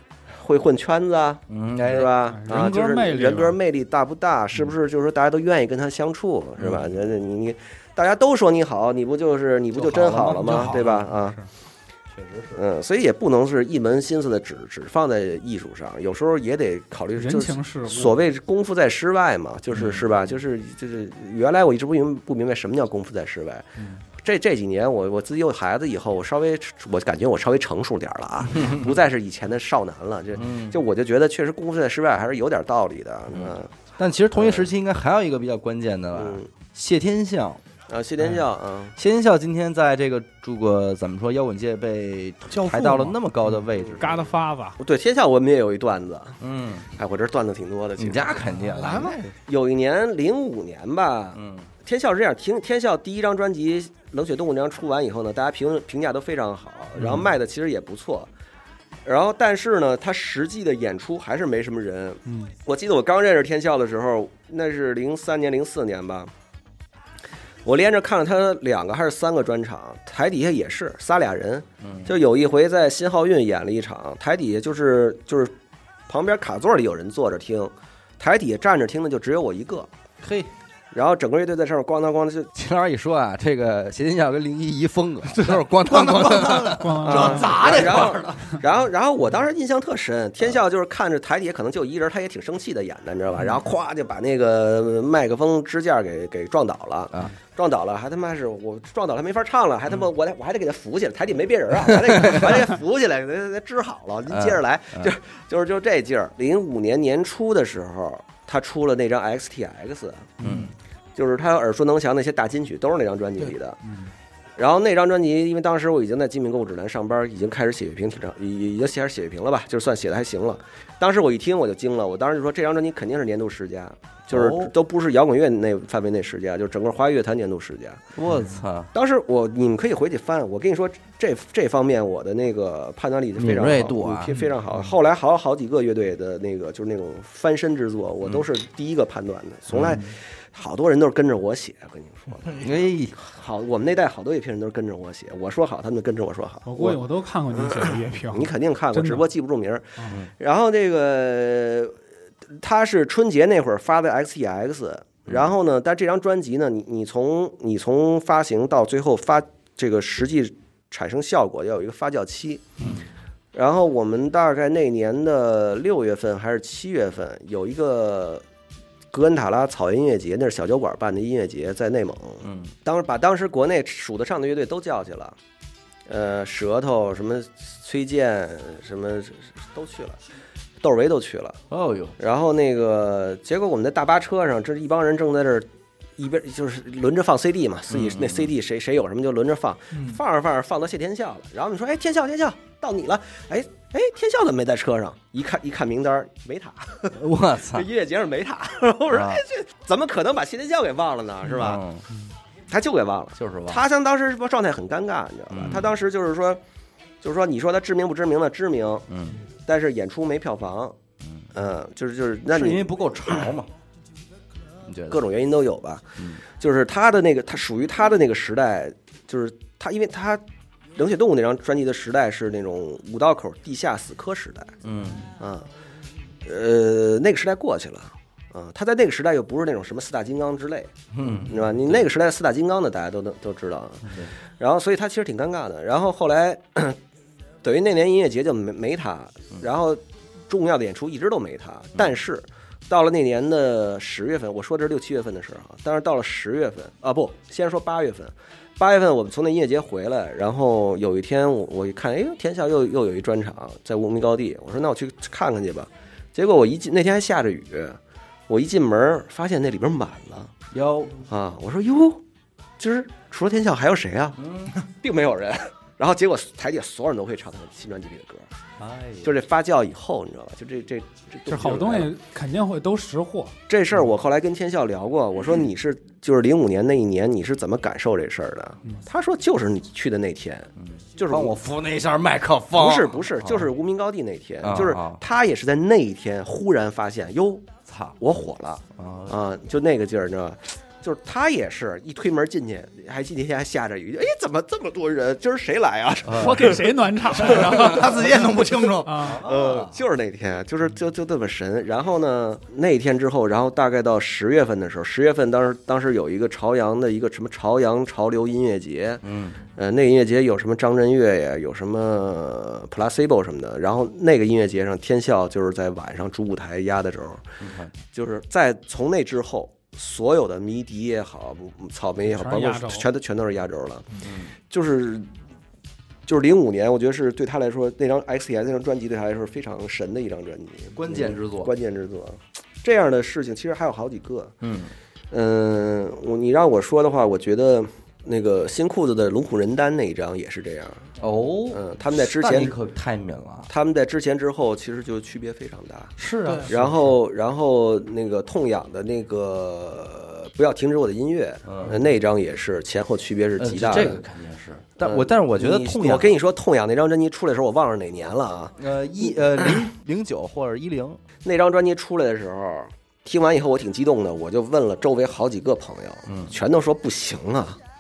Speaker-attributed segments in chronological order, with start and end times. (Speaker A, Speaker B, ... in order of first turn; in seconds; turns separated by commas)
Speaker A: 0.4-11.4, Speaker B: 1.5-2.1, Speaker C: 2.2-3.6, Speaker B: 6.6-6.9, Speaker B: 9.8-10.9, Speaker C: 10.3-11.4, Speaker B: 12.1-12.6, Speaker A: 12.6-33.7, Speaker C: 17.2-18.2, Speaker B: 19.7-20.1, Speaker B: 28.6-28.8, Speaker B: 30.4-30.8, Speaker B: 33.3-37.6, Speaker A: 34.3-34.7, Speaker A: 36.2-36.5, Speaker A: 37.9-39.0, Speaker B: 39.0-44.2, Speaker D: 42.5-43.2, Speaker C: 44.0-44.8, Speaker A: 44.8-46.4, Speaker B: 46.4-46.9, Speaker A: 46.9-48.5, Speaker B: 48.0-49.3, Speaker D: 48.6-49.3, Speaker A: 49.4-58.3, Speaker B: 51.4-51.7, Speaker B: 57.0-57.3, Speaker A: 59.0-66.3, Speaker C: 62.3-62.5, Speaker A: 67.7-75.5, Speaker B: 71.8-72.1, Speaker A: 76.1-79.9, Speaker B: 80.2-80.5, Speaker A: 80.9-82.5, Speaker B: 82.5-88.2, Speaker D: 85.3-88.6, Speaker C: 86.8-87.8, Speaker A: 87.6-110.3, Speaker B: 101.9-102.6, Speaker B: 104.3-105.1, Speaker B: 110.4-110.7, Speaker D: 110.4-110.7, Speaker A: 111.2-113.8, Speaker A: 114.6-128.0, Speaker B: 124.3-124.7, Speaker B: 128.2-128.9, Speaker A: 128.9-147.0, Speaker B: 133.4-134.3, Speaker B: 139.7-140.0, Speaker B: 142.6-143.2, Speaker C: 146.7-149.2, Speaker A: 147.6-151.9, Speaker A: 152.5-162.7, Speaker B: 162.8-163.1, Speaker A: 163.5-168.4, Speaker A: 169.1-175.4, Speaker B: 172.4-172.7, Speaker A: 176.1-180.2, Speaker A: 180.8-181.6, Speaker B: 181.7-182.2, Speaker A: 182.2-201.8, Speaker B: 187.9-188.5, Speaker D: 189.9-190.2, Speaker B: 197.1-197.9, Speaker B: 199.1-199.4, Speaker B: 201.5-202.1, Speaker A: 202.7-206.6, Speaker B: 203.4-203.8, Speaker B: 205.5-205.9, Speaker A: 207.2-209.1, Speaker B: 209.1-209.4, Speaker A: 209.7-211.0, Speaker B: 211.2-211.5, Speaker A: 211.5-213.5, Speaker B: 212.5-213.7, Speaker B: 214.8-215.2, Speaker A: 215.1-220.4, Speaker A: 221.0-224.7, Speaker B: 224.8-225.3, Speaker A: 225.4-225.7, Speaker A: 226.4-230.9, Speaker B: 231.1-232.0, Speaker A: 231.5-237.0, Speaker A: 237.6-260.5, Speaker B: 260.7-261.2, Speaker A: 261.3-262.2, Speaker A: 262.8-268.5, Speaker B: 264.4-264.8, Speaker B: 268.8-269.3, Speaker A: 269.2-272.1, Speaker C: 271.5-273.6, Speaker A: 273.7-281.6, Speaker B: 280.8-283.7, Speaker A: 282.7-287.7, Speaker B: 284.6-285.2, Speaker B: 287.9-288.2, Speaker A: 288.2-297.9, Speaker B: 288.9-289.4, Speaker B: 296.2-296.7, Speaker C: 296.3-298.4, Speaker D: 297.4-299.1, Speaker C: 299.0-299.4, Speaker B: 299.2-300.0, Speaker A: 299.3-309.2, Speaker B: 309.2-309.6, Speaker A: 309.8-317.5, Speaker B: 317.6-317.9, Speaker A: 318.1-324.1, Speaker C: 322.3-323.1, Speaker B: 324.2-324.5, Speaker A: 324.7-325.3, Speaker A: 326.3-334.5, Speaker B: 330.9-331.7, Speaker B: 334.6-334.9, Speaker A: 335.3-341.1, Speaker B: 341.2-343.7, Speaker A: 341.7-342.8, Speaker A: 343.7-354.2, Speaker D: 346.2-346.7, Speaker B: 346.4-346.9, Speaker B: 351.7-352.0, Speaker B: 353.6-356.3, Speaker A: 355.0-359.8, Speaker B: 358.8-361.2, Speaker A: 361.4-367.8, Speaker B: 366.3-366.5